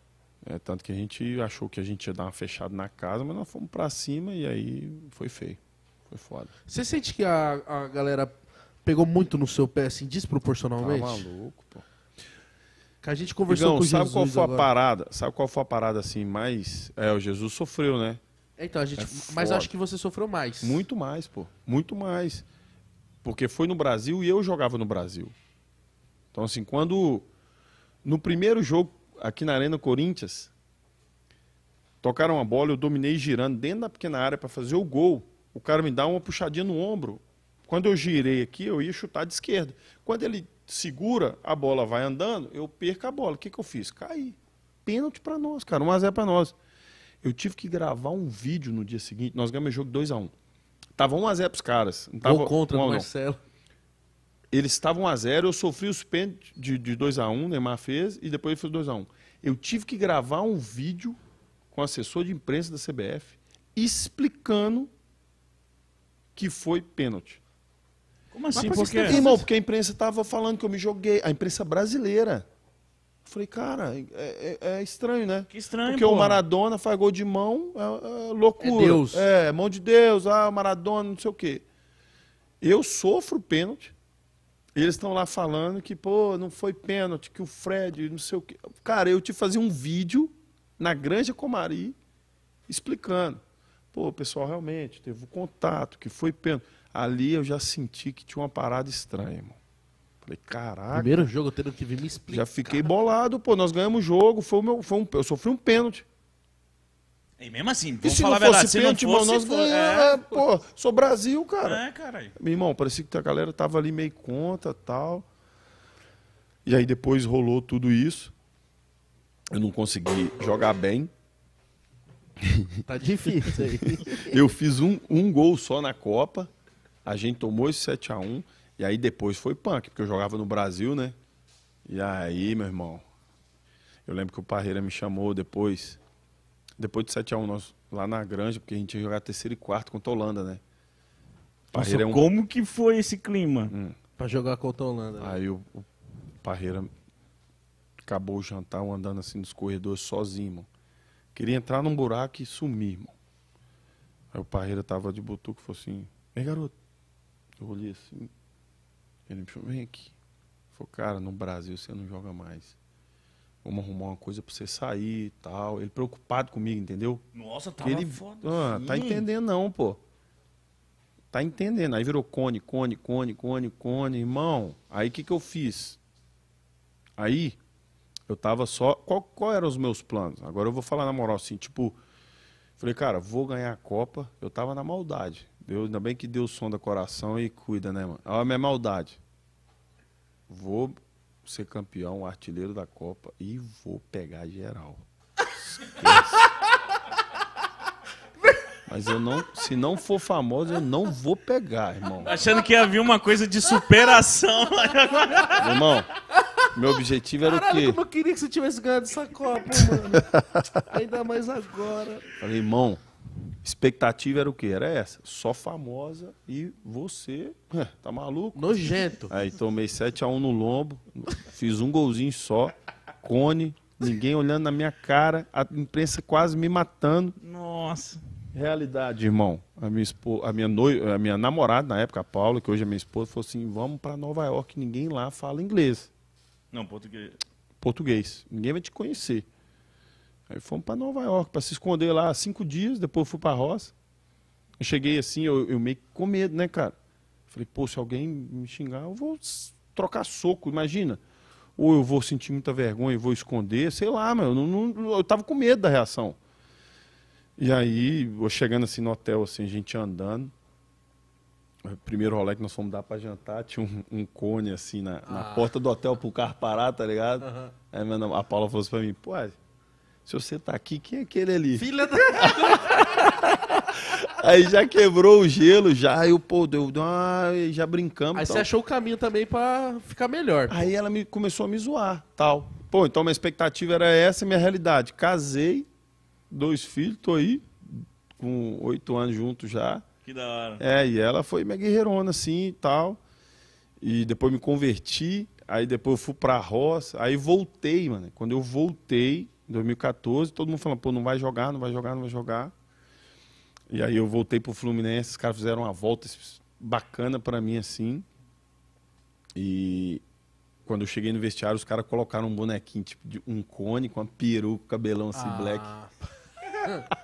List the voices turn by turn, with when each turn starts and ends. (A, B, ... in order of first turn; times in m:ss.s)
0:00.4-0:06.5 A
0:06.6-0:11.3 B
0:10.8-0:11.8 A
0:13.0-0:14.7 B
0:13.5-0:18.2 A
0:18.6-0:20.8 B
0:19.0-0:19.7 A
0:20.6-0:22.4 A
0:23.2-0:25.3 A
0:26.3-0:27.2 A
0:28.0-0:30.5 A
0:32.0-0:46.6 A
0:47.2-0:50.3 A
0:51.0-0:53.1 A
0:52.2-0:53.4 B
0:54.5-1:01.2 A
1:01.7-1:04.9 A
1:06.4-1:07.4 A
1:08.3-1:09.2 C
1:08.5-1:09.4 B
1:08.9-1:12.4 A
1:13.2-1:21.6 A
1:15.5-1:16.4 C
1:18.6-1:19.3 B
1:22.6-1:23.9 A
1:24.7-1:32.0 A
1:32.7-1:33.4 A
1:33.9-1:39.6 A
1:40.2-1:41.3 A
1:40.9-1:43.0 B
1:42.3-1:46.0 A
1:47.4-1:50.5 C
1:48.0-1:51.8 A
1:51.6-1:52.3 C
1:52.4-1:55.2 A
1:56.6-1:58.3 A
1:59.5-2:01.1 A
2:02.4-2:06.5 A
2:02.8-2:04.3 B
2:07.0-2:11.1 A
2:11.8-2:13.0 A
2:14.0-2:16.0 A
2:16.8-2:20.6 A
2:21.7-2:22.3 A
2:21.7-2:23.7 C
2:23.7-2:24.0 A
2:24.2-2:25.4 B
2:25.2-2:25.9 A
2:26.4-2:26.9 A
2:28.0-2:30.7 A
2:31.3-2:33.1 A
2:34.3-2:36.7 A
2:37.6-2:38.3 A
2:39.3-2:40.2 A
2:40.7-2:42.7 A
2:43.6-2:47.2 A
2:47.3-2:49.3 C
2:47.8-2:50.0 A
2:51.3-2:56.0 A
2:57.2-2:57.6 A
2:58.3-3:02.0 A
3:02.8-3:09.2 A
3:10.5-3:15.0 A
3:15.8-3:16.4 A
3:18.9-3:22.3 A
3:22.2-3:25.8 C
3:25.6-3:26.1 A
3:26.4-3:26.6 B
3:26.7-3:28.0 A
3:27.4-3:30.3 B
3:29.7-3:30.2 A
3:30.9-3:32.3 B
3:32.4-3:33.0 A
3:33.6-3:47.4 A
3:38.5-3:39.3 B
3:47.4-3:48.2 C
3:48.5-3:56.1 A
3:56.7-3:57.4 C
3:57.8-3:59.4 A
4:00.5-4:03.9 A
4:04.8-4:06.9 A
4:07.5-4:11.2 A
4:11.8-4:16.4 A
4:17.6-4:20.5 A
4:21.8-4:29.6 A
4:25.3-4:25.7 B
4:27.4-4:27.7 B
4:30.2-4:38.7 A
4:31.8-4:33.1 B
4:38.3-4:40.9 B
4:40.7-4:45.9 A
4:46.5-4:50.0 A
4:50.2-4:50.8 C
4:50.8-4:53.2 A
4:54.0-5:02.7 A
5:03.9-5:08.2 A
5:09.6-5:10.2 A
5:10.8-5:15.9 A
5:15.3-5:16.1 B